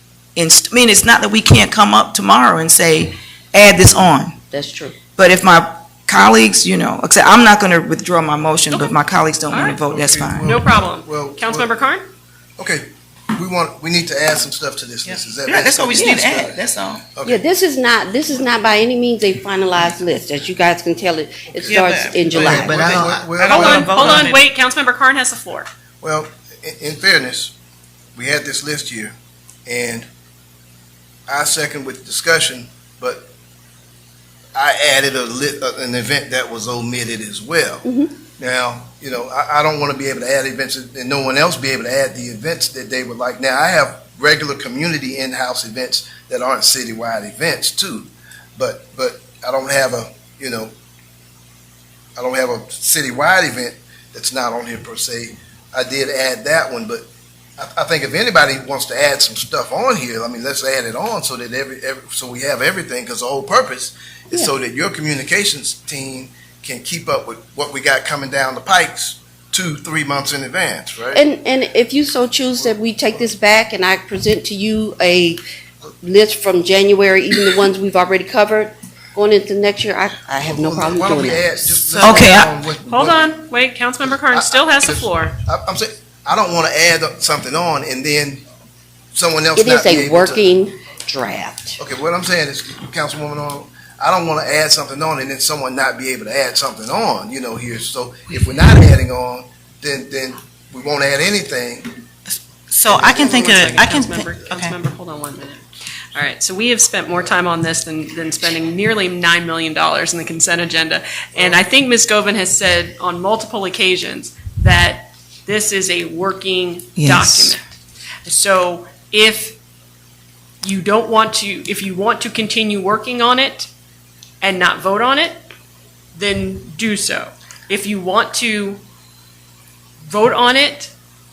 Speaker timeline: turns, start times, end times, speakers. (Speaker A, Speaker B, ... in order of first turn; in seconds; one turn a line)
Speaker A: 0.4-4.4
Speaker B: 4.5-5.0
Speaker A: 5.2-10.6
Speaker C: 8.7-9.0
Speaker D: 9.7-11.7
Speaker C: 10.4-12.1
Speaker D: 12.6-17.4
Speaker A: 15.5-17.0
Speaker E: 15.6-16.6
Speaker B: 16.0-16.2
Speaker B: 17.2-23.1
Speaker E: 21.7-24.4
Speaker D: 21.7-24.3
Speaker A: 22.3-23.3
Speaker C: 23.4-25.7
Speaker D: 26.0-27.5
Speaker D: 28.1-29.1
Speaker D: 29.7-30.1
Speaker D: 31.3-33.3
Speaker D: 34.5-37.9
Speaker B: 37.9-38.1
Speaker D: 38.4-50.7
Speaker D: 52.2-57.0
Speaker D: 57.6-71.2
Speaker B: 71.1-75.4
Speaker B: 76.0-81.8
Speaker D: 80.4-83.3
Speaker E: 81.9-82.3
Speaker A: 82.0-82.5
Speaker C: 82.9-85.4
Speaker D: 84.2-88.4
Speaker D: 89.1-90.5
Speaker B: 89.6-91.8
Speaker D: 91.8-101.9
Speaker E: 102.7-104.8
Speaker D: 102.9-103.6
Speaker C: 102.9-117.7
Speaker A: 117.0-117.6
Speaker C: 118.2-119.6
Speaker C: 120.6-123.7
Speaker C: 124.4-125.4
Speaker C: 126.2-128.8
Speaker C: 130.1-130.9